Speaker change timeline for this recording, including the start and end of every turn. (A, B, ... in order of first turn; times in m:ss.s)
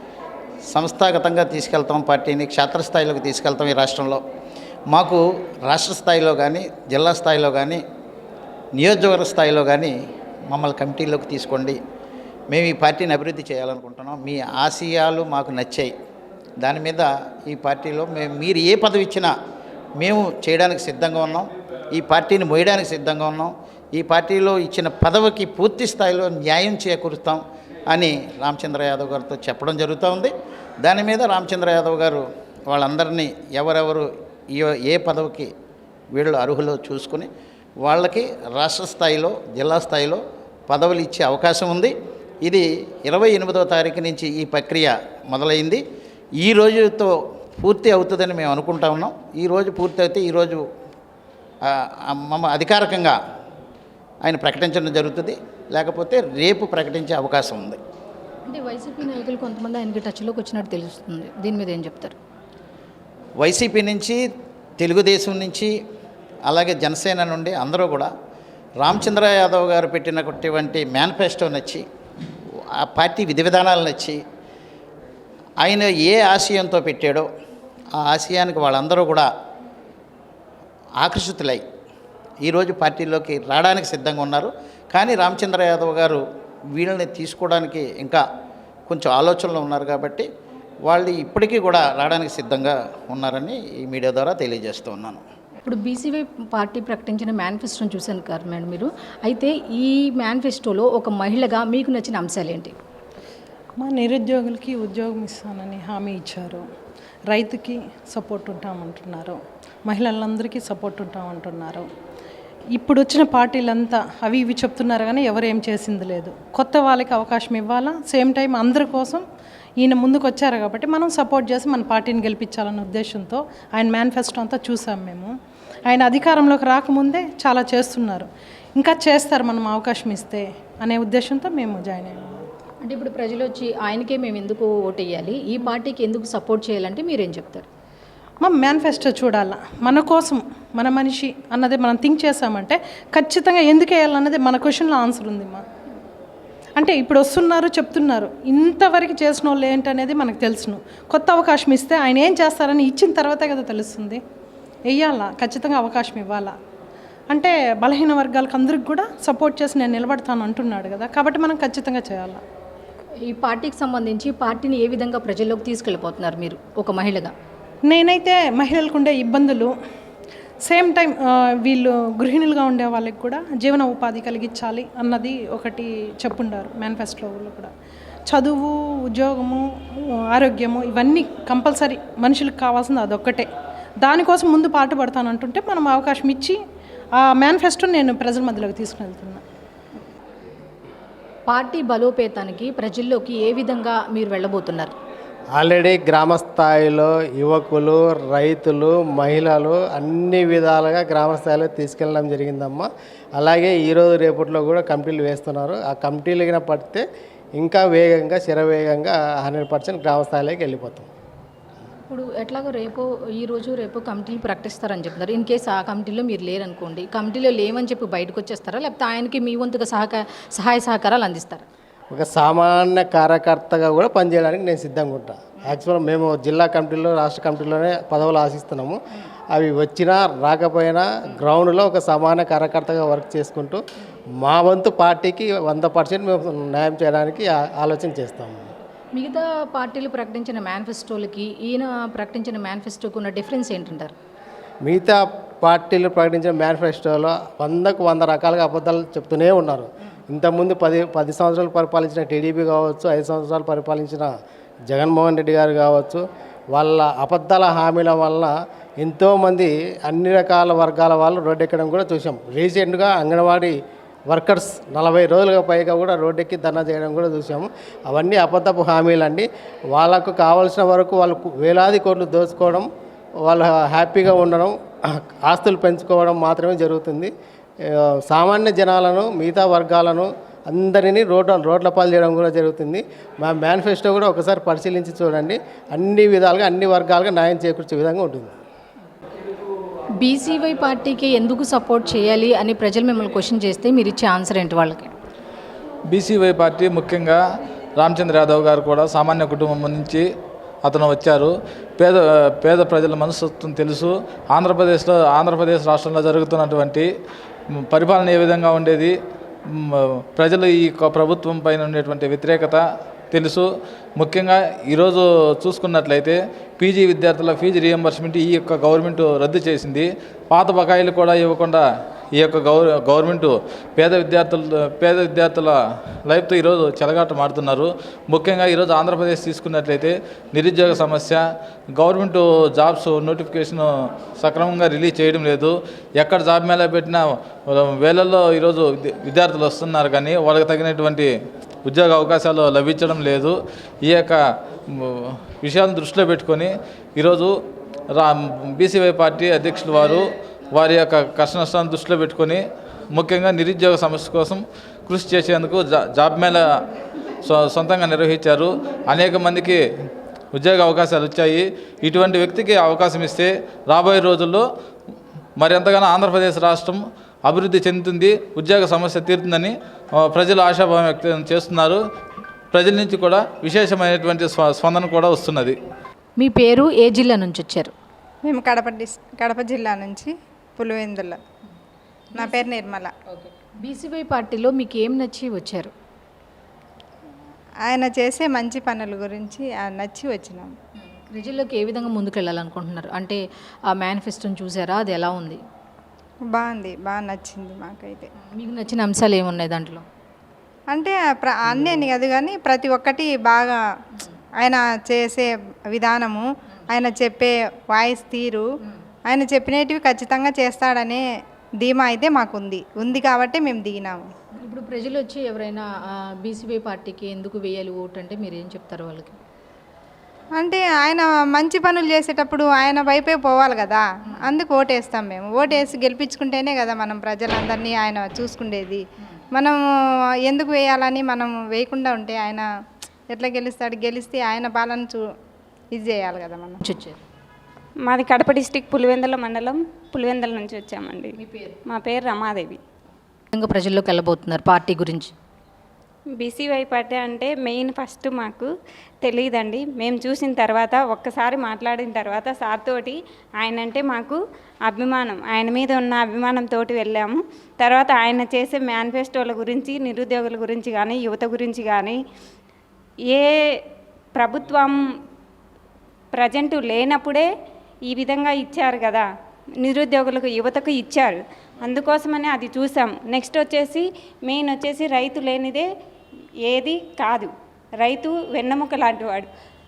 0:00.7-0:04.2 A
0:04.9-0:07.8 A
0:08.8-0:09.9 A
0:10.5-0:11.8 A
0:12.5-0:15.9 A
0:16.6-0:19.3 A
0:20.0-0:35.5 A
0:36.1-0:37.3 A
0:37.8-0:45.8 A
0:46.4-0:50.6 A
0:51.6-0:53.2 A
0:54.2-0:57.8 A
0:58.4-1:02.2 B
1:03.4-1:04.2 A
1:04.8-1:05.7 A
1:06.5-1:08.1 A
1:08.8-1:11.8 A
1:12.8-1:14.2 A
1:15.6-1:17.3 A
1:18.0-1:19.3 A
1:21.0-1:21.6 A
1:22.4-1:26.2 A
1:26.7-1:28.2 A
1:28.9-1:30.3 A
1:30.8-1:35.2 A
1:35.6-1:42.7 B
1:43.8-1:46.6 C
1:47.3-1:51.8 C
1:52.7-1:59.2 C
1:59.8-2:05.3 C
2:05.9-2:12.3 C
2:12.8-2:17.6 B
2:18.4-2:25.6 C
2:26.8-2:34.2 C
2:34.9-2:36.5 C
2:37.3-2:42.4 C
2:43.2-2:47.3 B
2:47.9-2:49.7 C
2:50.6-2:57.7 C
2:58.3-3:03.5 C
3:04.0-3:06.6 C
3:07.2-3:09.4 C
3:11.5-3:14.9 B
3:15.5-3:27.0 D
3:27.6-3:31.1 D
3:32.1-3:41.6 B
3:42.1-3:49.0 D
3:49.5-3:53.8 D
3:54.4-3:58.7 D
3:59.1-4:04.1 B
4:04.8-4:14.3 D
4:14.9-4:23.8 D
4:24.3-4:32.9 D
4:33.4-4:37.3 D
4:37.8-4:48.5 D
4:50.2-4:55.1 B
4:56.1-4:57.4 E
4:58.0-5:00.3 E
5:00.8-5:07.1 E
5:07.7-5:41.3 E
5:41.8-5:47.6 E
5:48.1-5:56.8 E
5:57.4-5:59.8 E
6:00.5-6:04.7 E
6:05.6-6:12.0 E
6:12.7-6:15.8 E
6:16.4-6:17.9 B
6:18.5-6:21.4 F
6:22.4-6:23.1 F
6:23.3-6:25.9 B
6:27.9-6:30.7 F
6:31.0-6:33.4 B
6:33.9-6:35.6 B
6:36.5-6:38.3 F
6:38.4-6:40.0 B
6:40.9-6:43.8 F
6:44.6-6:48.6 F
6:49.3-6:51.2 F
6:51.8-6:54.2 F
6:54.6-6:59.4 B
7:00.6-7:09.0 F
7:10.5-7:12.6 F
7:13.3-7:15.2 F
7:15.9-7:16.8 F
7:16.8-7:17.2 B
7:18.0-7:21.3 G
7:21.4-7:21.8 B
7:21.9-7:22.8 G
7:23.5-7:25.3 B
7:26.4-7:28.7 G
7:29.2-7:42.2 G
7:43.3-7:43.8 G
7:44.3-7:45.0 G
7:46.3-7:47.5 G
7:48.1-7:49.2 G
7:49.8-7:55.8 G
7:56.6-7:59.5 G